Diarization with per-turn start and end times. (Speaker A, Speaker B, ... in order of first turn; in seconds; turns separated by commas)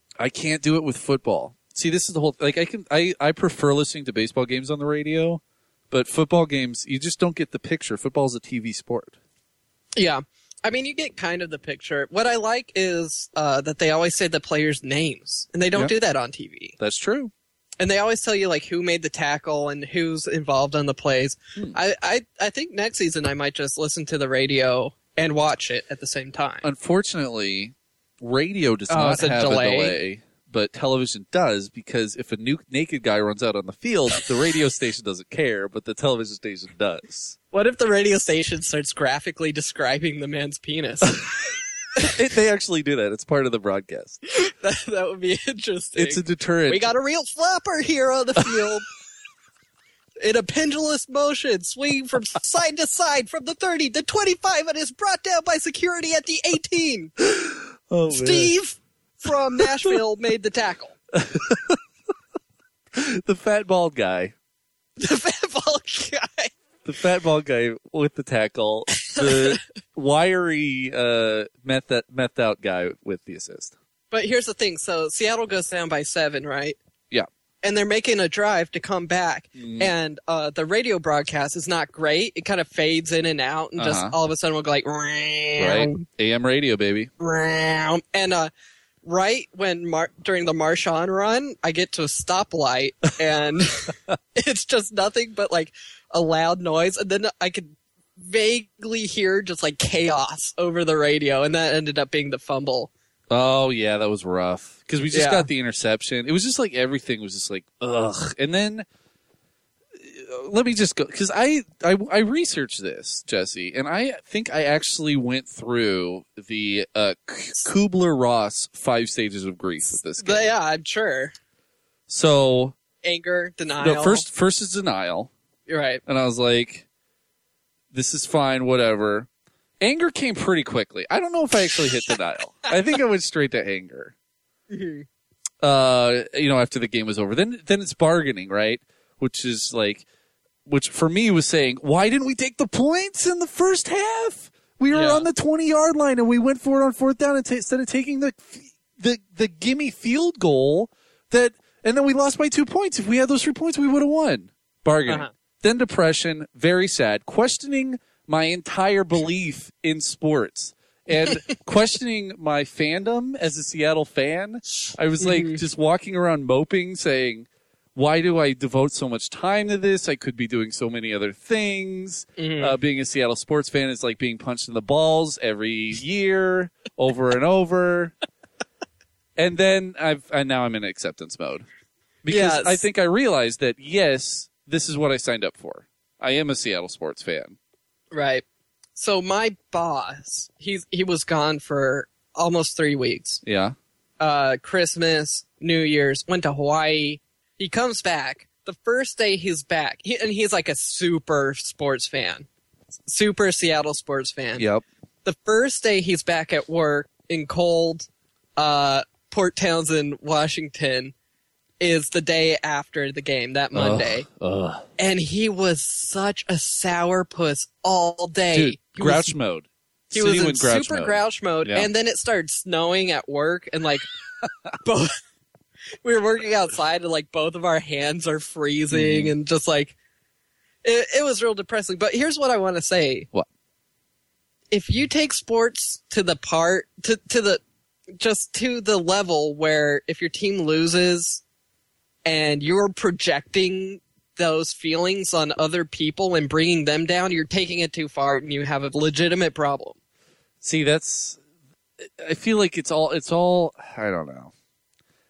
Speaker A: 0.2-9.2, Speaker B: 10.0-16.8, Speaker A: 16.8-17.3, Speaker B: 17.8-26.6, Speaker A: 26.6-37.4, Speaker B: 28.9-30.0, Speaker B: 37.5-41.2, Speaker A: 42.0-44.2, Speaker B: 44.3-48.9, Speaker A: 46.0-46.9, Speaker B: 50.2-57.1, Speaker A: 57.2-58.5, Speaker B: 58.1-61.0, Speaker A: 59.6-59.9, Speaker A: 61.1-61.8, Speaker A: 62.9-64.3, Speaker B: 65.0-66.5, Speaker A: 66.8-73.7, Speaker B: 69.0-69.6, Speaker B: 74.1-76.8, Speaker B: 77.6-86.0, Speaker A: 79.6-79.9, Speaker A: 83.8-84.2, Speaker A: 85.6-87.1, Speaker B: 87.2-88.5, Speaker B: 89.0-102.9, Speaker A: 103.3-108.9, Speaker B: 105.1-105.5, Speaker A: 110.0-120.5, Speaker B: 120.2-121.3, Speaker A: 122.1-122.8, Speaker B: 123.0-124.2, Speaker A: 123.8-125.3, Speaker B: 125.7-126.0, Speaker A: 126.1-126.9, Speaker A: 127.9-129.3, Speaker A: 129.8-134.1, Speaker B: 134.7-135.1, Speaker A: 135.6-140.1, Speaker A: 140.7-178.2, Speaker B: 144.9-145.3, Speaker B: 155.1-155.3, Speaker B: 165.2-165.6, Speaker B: 172.4-172.7, Speaker A: 179.4-181.7, Speaker A: 182.2-187.6, Speaker B: 182.3-182.8, Speaker B: 188.1-188.4, Speaker B: 189.0-193.4, Speaker A: 193.4-193.8, Speaker B: 194.2-202.5, Speaker B: 203.1-204.7, Speaker A: 204.6-204.8, Speaker B: 205.2-211.1, Speaker B: 211.8-214.3, Speaker A: 213.7-214.9, Speaker B: 215.0-219.3, Speaker A: 218.5-221.9, Speaker B: 220.1-224.1, Speaker B: 224.8-225.1, Speaker B: 226.0-229.9, Speaker A: 228.9-229.3, Speaker B: 230.8-233.3, Speaker B: 234.7-237.6, Speaker B: 238.2-241.4, Speaker B: 242.3-250.0, Speaker A: 250.6-251.4, Speaker A: 252.0-254.5